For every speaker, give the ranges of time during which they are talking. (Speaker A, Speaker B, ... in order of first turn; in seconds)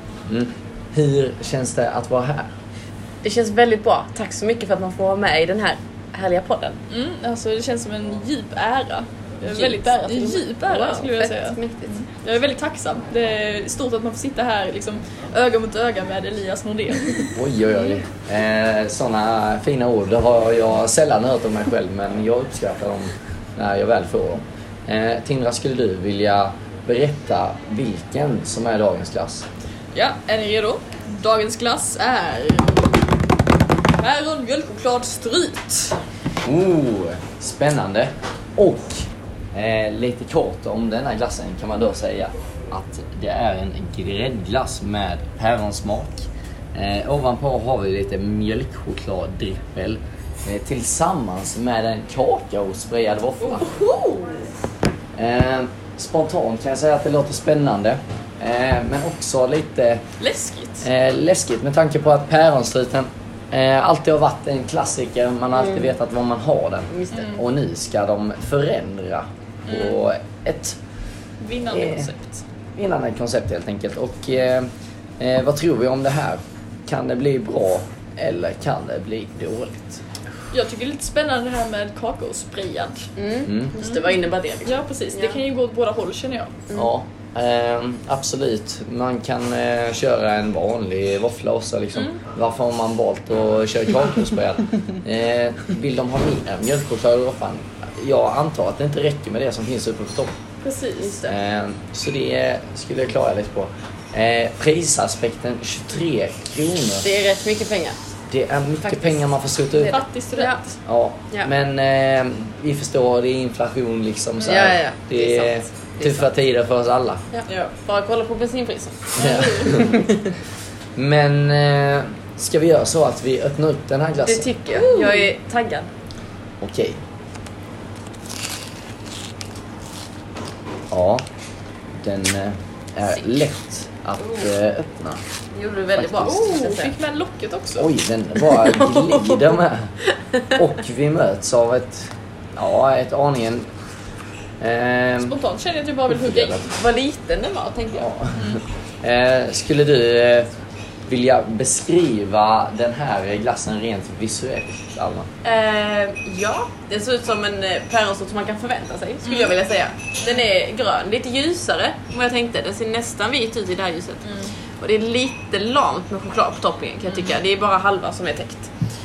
Speaker A: 0.3-2.5, 17.3-29.5, 36.4-53.7, 55.1-60.0, 60.8-70.8, 71.7-72.1, 72.8-80.0, 83.5-83.7, 86.7-100.3, 101.2-107.0, 108.3-110.0, 110.8-117.2, 119.2-120.0, 121.0-124.5, 126.6-127.0, 130.9-131.2, 132.0-135.2, 136.0-136.3, 137.8-140.0, 140.5-143.7, 144.6-145.3, 146.1-146.6, 148.0-150.5, 151.1-155.3
Speaker B: 3.2-6.8, 9.4-12.0, 65.5-65.9, 66.9-67.2, 83.2-85.4, 107.0-108.0, 108.9-109.2, 109.8-110.6, 114.4-116.3, 117.3-119.1, 119.6-120.1, 124.2-125.9, 135.5-136.9, 138.4-139.4, 146.6-148.1, 155.4-168.7
Speaker C: 6.9-17.9, 29.9-33.0, 34.0-36.0, 53.4-54.4, 60.2-60.9, 67.1-67.4, 69.7-70.0, 71.4-72.4, 80.5-83.1, 83.8-84.1, 84.6-86.5, 100.6-101.3, 109.9-110.8, 119.2-119.9, 124.7-125.3, 136.1-137.9, 145.2-146.7, 159.2-159.5, 164.2-164.5